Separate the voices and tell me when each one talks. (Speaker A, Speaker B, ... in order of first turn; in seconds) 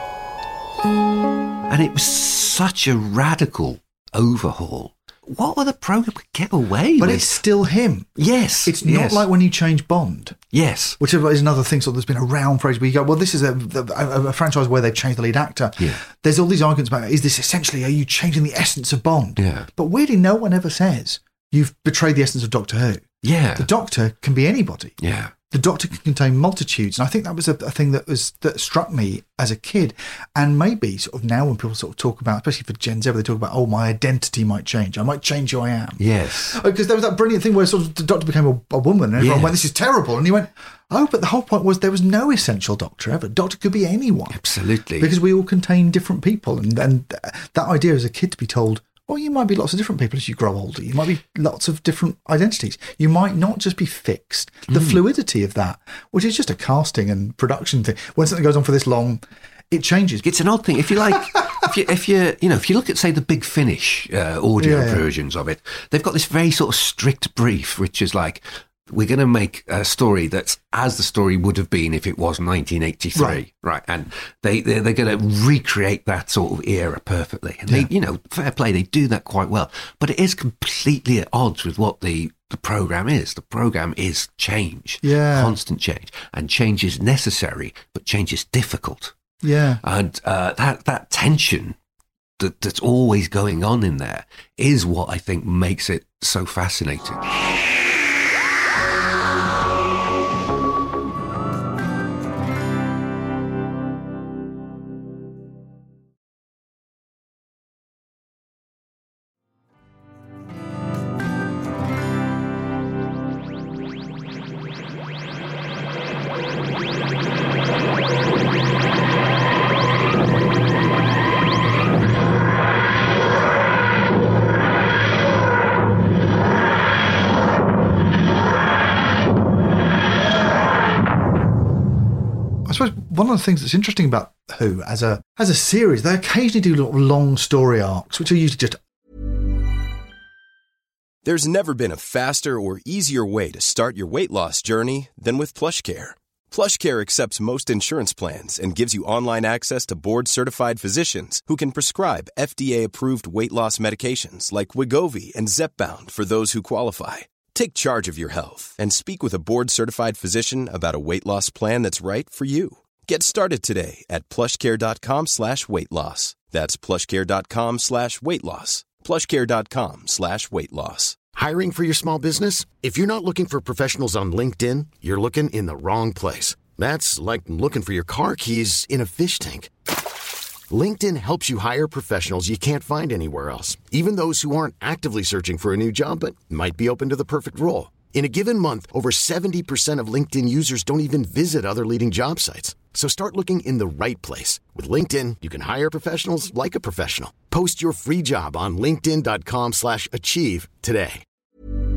Speaker A: 1.7-7.4, 8.2-9.3, 10.5-11.0, 19.4-19.7, 23.2-23.7, 25.0-25.3, 36.0-36.6, 39.2-39.6, 44.3-45.1, 54.7-55.0, 60.2-89.1, 89.8-91.8, 92.4-97.2
Speaker B: 7.0-8.1, 8.6-10.4, 11.0-25.0, 25.5-44.4, 45.0-60.2, 64.6-65.0, 73.2-73.4, 85.0-85.5, 89.4-89.8, 132.7-138.8
Speaker C: 141.2-171.2
Speaker D: 171.3-179.7, 180.7-201.2